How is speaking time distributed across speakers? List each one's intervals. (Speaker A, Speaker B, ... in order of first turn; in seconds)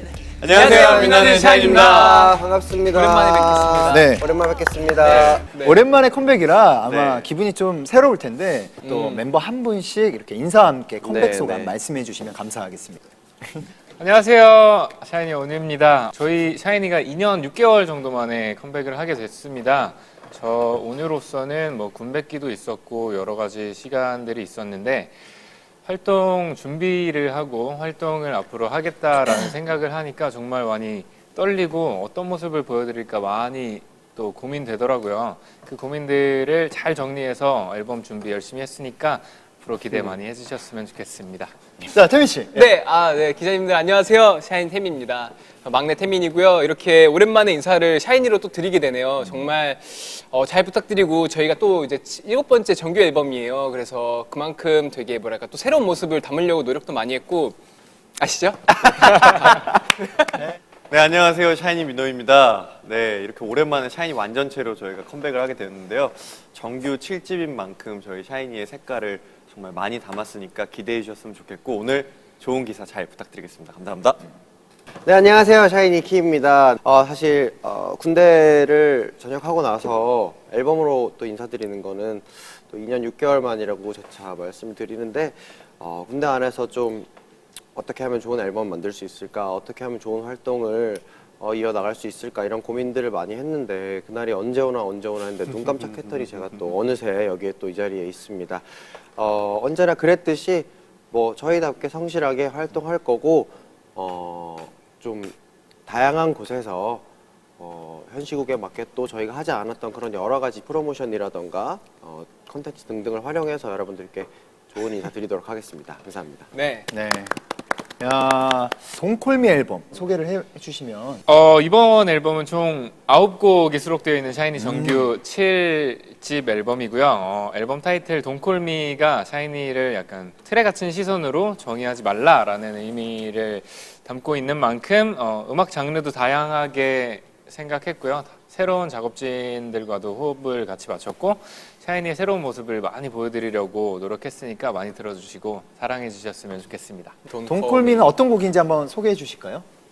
Speaker A: 0.4-2.2, 6.8-7.3, 60.9-74.2
Speaker B: 0.5-4.1, 5.0-5.8, 8.8-9.2, 42.5-57.6, 58.2-60.5, 116.5-116.9, 147.2-148.1
Speaker C: 0.6-5.5, 11.0-11.7, 75.0-87.1, 87.7-105.3, 105.9-107.0, 107.6-116.5
Speaker D: 3.9-4.2, 5.1-13.6, 41.8-42.7, 116.9-117.3, 118.0-121.2, 124.6-125.1, 147.4-149.6
Speaker E: 14.0-25.1, 25.8-41.5, 121.2-147.2